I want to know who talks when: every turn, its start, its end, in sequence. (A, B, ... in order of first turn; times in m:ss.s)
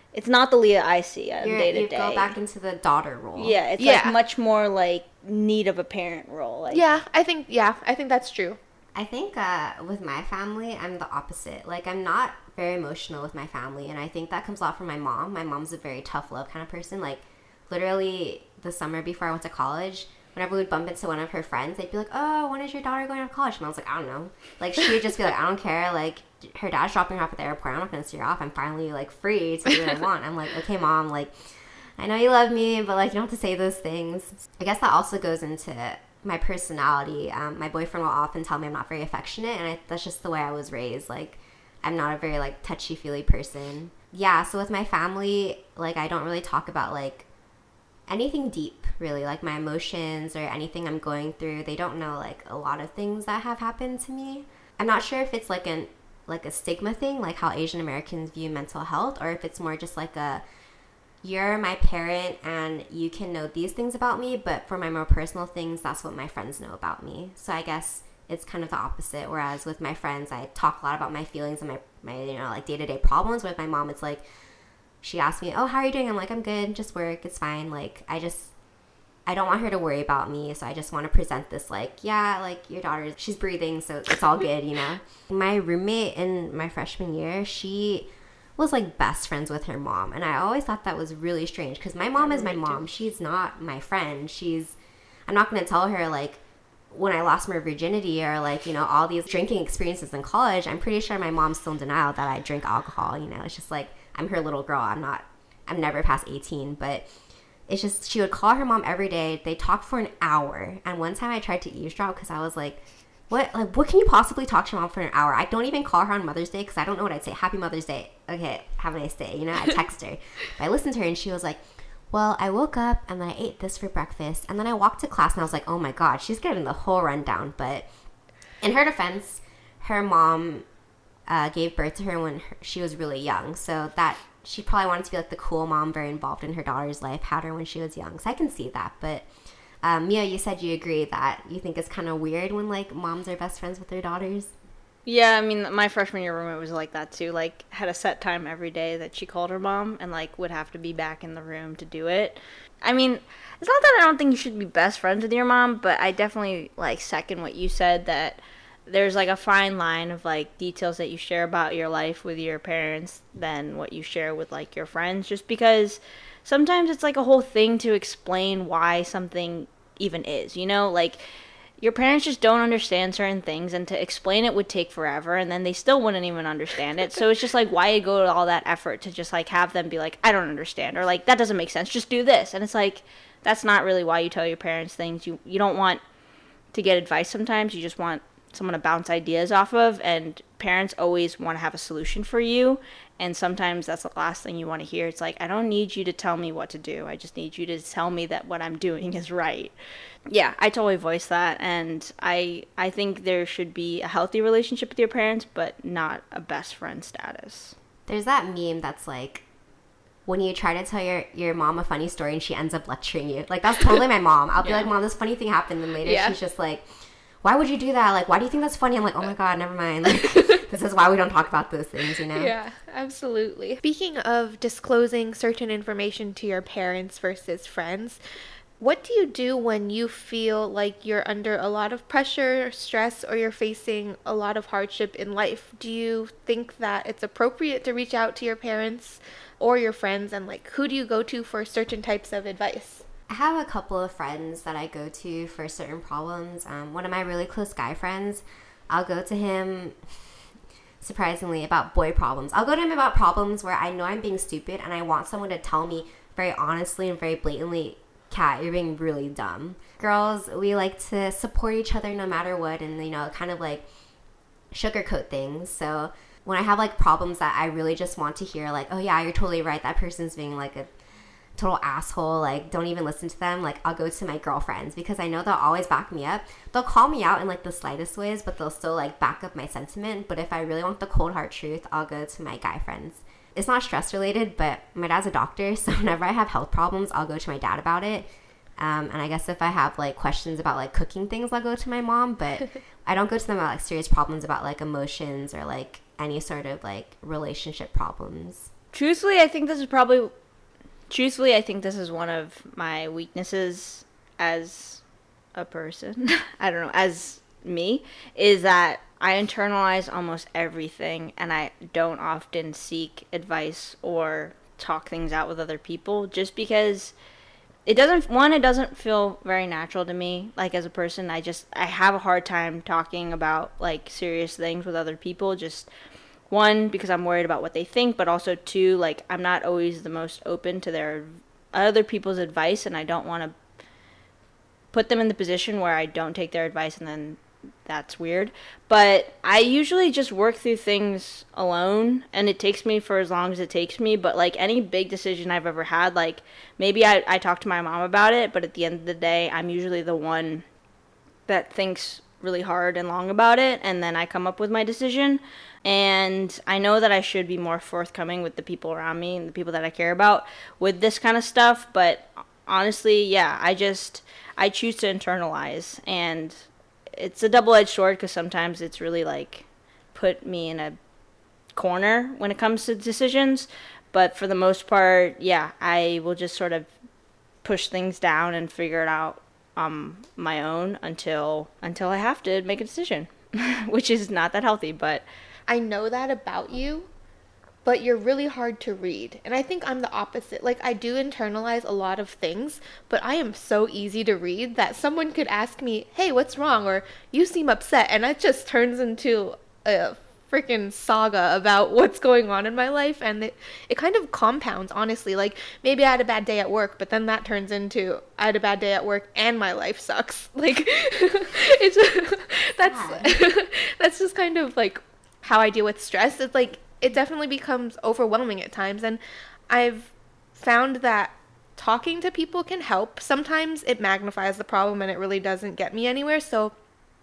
0:00.1-0:02.4 A
0:01.4-0:03.6 B
0:03.4-0:06.8 A
0:03.8-0:04.2 C
0:06.7-0:08.6 C
0:09.0-0:31.3 B
0:32.0-0:47.3 B
0:48.1-1:00.4 B
1:01.2-1:14.2 B
1:15.0-1:18.5 B
1:19.3-1:34.8 B
1:32.4-1:32.7 A
1:35.3-1:47.1 B
1:47.7-2:07.9 B
2:08.6-2:10.6 B
2:11.3-2:19.3 B
2:19.8-2:24.5 B
2:25.1-2:51.2 A
2:51.8-3:06.0 A
3:06.7-3:19.7 A
3:20.3-3:27.8 A
3:28.1-3:29.4 B
3:30.3-3:36.9 B
3:34.6-3:34.9 A
3:36.0-3:36.4 C
3:37.4-3:42.5 B
3:40.2-3:40.6 C
3:42.3-3:48.2 C
3:48.8-4:03.0 C
4:03.3-4:10.0 B
4:11.0-4:23.9 B
4:24.7-4:30.9 B
4:31.6-4:58.7 B
4:58.9-5:00.3 A
5:01.1-5:05.0 A
5:05.6-5:17.1 A
5:17.9-5:25.9 A
5:26.5-5:33.6 A
5:34.9-5:50.6 A
5:51.5-6:11.0 A
6:11.7-6:16.9 A
6:17.6-6:25.2 A
6:25.7-6:27.1 C
6:27.8-7:06.7 C
6:52.8-6:53.4 B